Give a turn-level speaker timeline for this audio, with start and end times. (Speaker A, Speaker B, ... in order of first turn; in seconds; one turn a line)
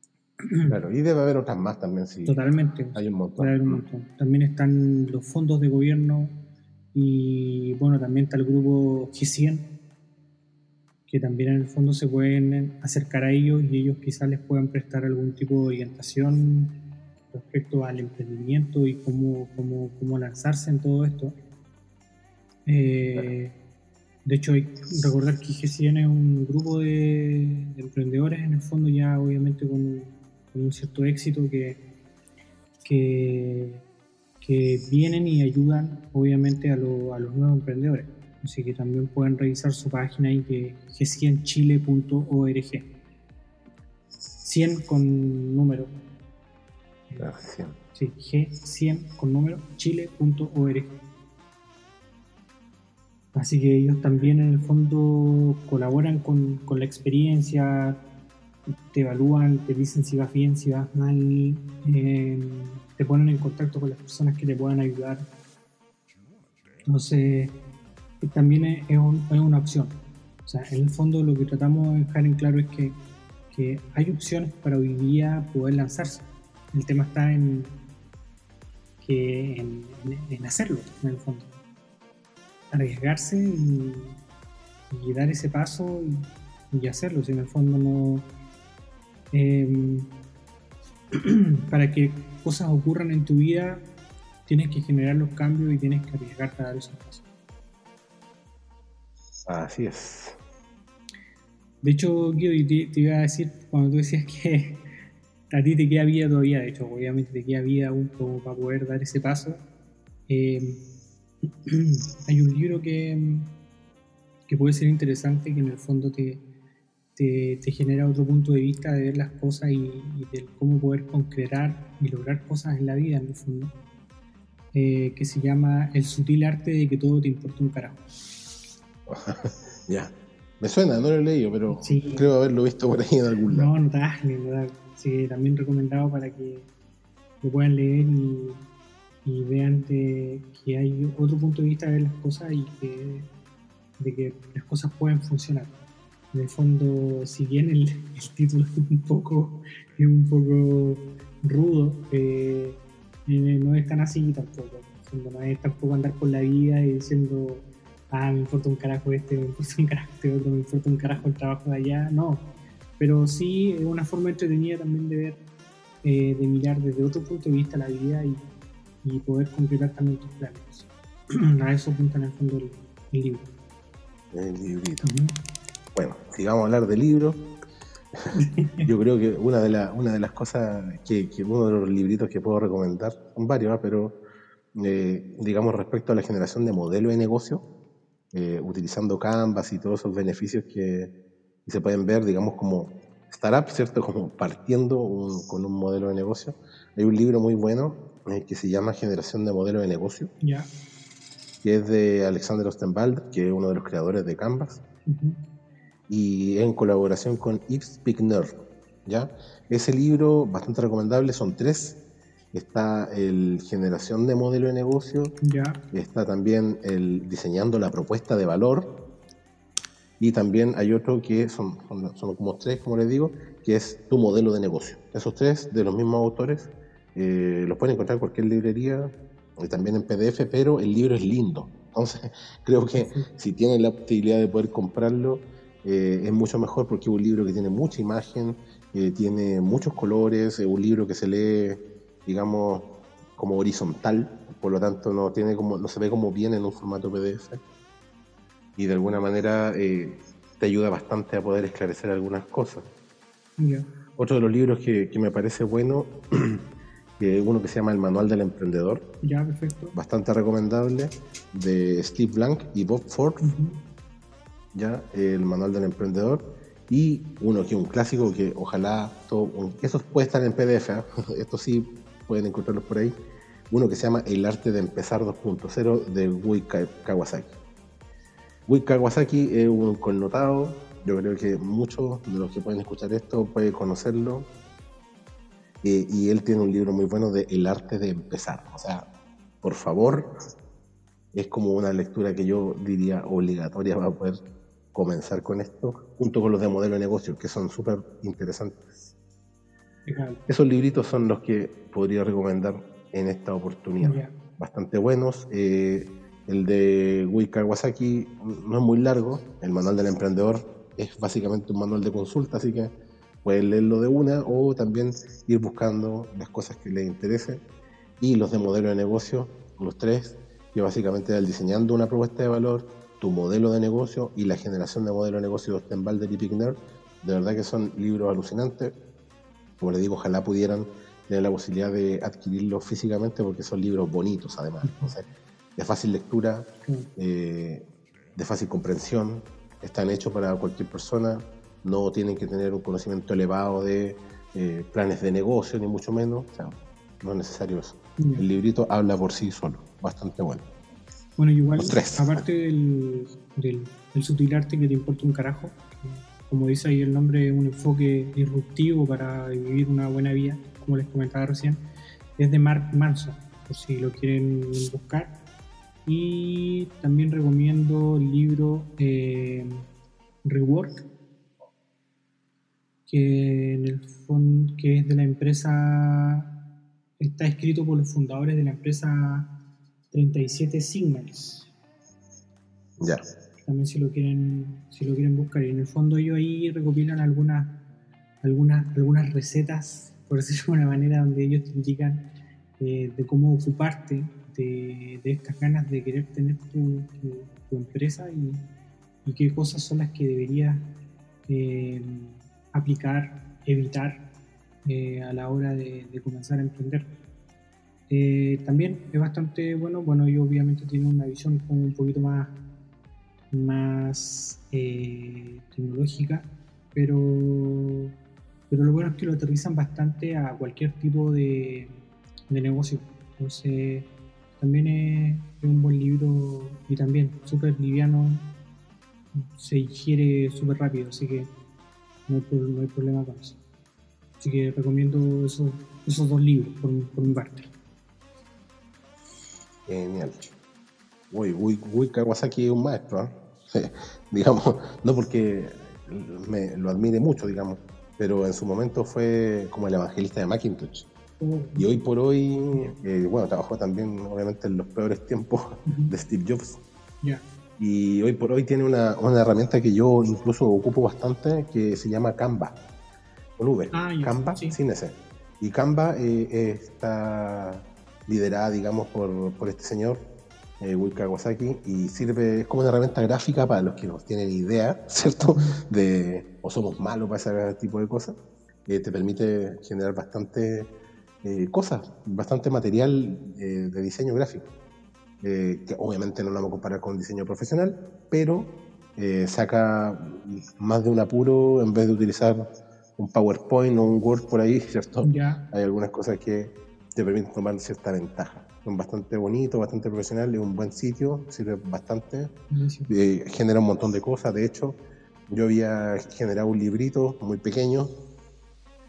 Speaker A: 0.4-0.7
Speaker B: 0.7-2.4
Speaker A: 2.2-6.3
Speaker B: 2.9-3.8
Speaker A: 6.9-9.7
Speaker A: 11.1-16.7
Speaker A: 17.3-21.3
Speaker A: 22.6-23.5
Speaker A: 24.2-31.8
Speaker A: 32.8-33.8
Speaker A: 34.4-42.9
Speaker A: 44.4-45.9
Speaker B: 47.2-47.8
Speaker A: 47.9-50.9
Speaker A: 53.3-58.0
Speaker A: 58.7-65.2
Speaker A: 66.9-67.5
Speaker A: 68.2-69.9
Speaker A: 70.5-73.0
Speaker A: 73.5-77.8
Speaker A: 79.0-81.5
Speaker A: 82.7-84.2
Speaker A: 84.9-88.3
Speaker A: 89.3-90.1
Speaker A: 91.2-93.8
Speaker A: 94.5-97.2
Speaker B: 99.5-100.4
Speaker A: 101.8-104.8
Speaker A: 105.5-109.6
Speaker A: 110.3-110.8
Speaker A: 111.7-113.5
Speaker A: 114.5-116.4
Speaker A: 117.2-123.7
Speaker A: 124.7-128.0
Speaker B: 129.1-133.7
Speaker A: 131.7-132.3
Speaker A: 133.5-136.7
Speaker A: 137.4-138.6
Speaker A: 139.2-143.3
Speaker A: 144.0-145.7
Speaker A: 146.3-162.4
Speaker A: 163.0-165.4
Speaker A: 166.0-168.5
Speaker A: 169.0-173.5
Speaker B: 174.3-175.1
Speaker A: 175.0-175.3
Speaker B: 175.9-177.4
Speaker A: 178.3-178.9
Speaker B: 178.8-184.2
Speaker B: 184.7-187.6
Speaker B: 188.3-191.1
Speaker B: 191.7-200.3
Speaker A: 200.4-200.7
Speaker B: 201.6-204.8
Speaker A: 205.1-205.4
Speaker B: 206.1-208.5
Speaker B: 209.1-212.0
Speaker B: 212.5-215.3
Speaker A: 215.4-215.8
Speaker B: 215.9-218.9
Speaker B: 220.2-247.6
Speaker A: 233.0-233.3
Speaker B: 248.8-252.9
Speaker A: 253.6-253.9
Speaker B: 254.2-256.6
Speaker B: 257.2-259.0
Speaker A: 259.2-259.9
Speaker B: 259.9-263.5
Speaker A: 263.4-263.8
Speaker B: 264.7-273.1
Speaker B: 273.7-277.5
Speaker B: 278.7-284.5
Speaker B: 285.8-289.1
Speaker B: 289.6-290.3
Speaker B: 291.3-294.4
Speaker B: 294.9-298.8
Speaker A: 300.1-300.4
Speaker B: 300.5-312.9
Speaker A: 304.0-304.3
Speaker B: 313.4-317.6
Speaker B: 318.2-328.9
Speaker B: 329.8-335.2
Speaker A: 334.8-335.1
Speaker B: 335.8-337.8
Speaker B: 338.4-350.6
Speaker A: 348.2-348.4
Speaker A: 351.4-361.8
Speaker B: 351.8-352.4
Speaker A: 362.4-365.3
Speaker A: 366.1-369.9
Speaker A: 370.4-371.0
Speaker A: 373.1-376.5
Speaker A: 377.2-379.5
Speaker A: 380.1-381.7
Speaker B: 383.0-383.2
Speaker A: 383.7-387.7
Speaker A: 388.4-392.2
Speaker A: 392.8-398.7
Speaker A: 399.2-400.9
Speaker A: 401.5-404.2
Speaker A: 404.8-407.1
Speaker A: 408.1-412.5
Speaker A: 413.5-418.1
Speaker A: 418.7-428.4
Speaker A: 429.3-431.5
Speaker A: 432.3-433.6
Speaker A: 434.4-437.7
Speaker B: 439.9-440.4
Speaker B: 441.3-451.1
Speaker A: 451.4-451.9
Speaker B: 451.8-456.8
Speaker A: 455.9-456.1
Speaker B: 457.8-462.8
Speaker B: 463.6-470.2
Speaker A: 463.9-464.8
Speaker B: 470.8-480.9
Speaker A: 475.5-475.8
Speaker B: 481.4-484.7
Speaker B: 485.4-492.6
Speaker B: 493.2-502.5
Speaker A: 495.2-495.6
Speaker A: 502.7-503.1
Speaker B: 503.1-508.1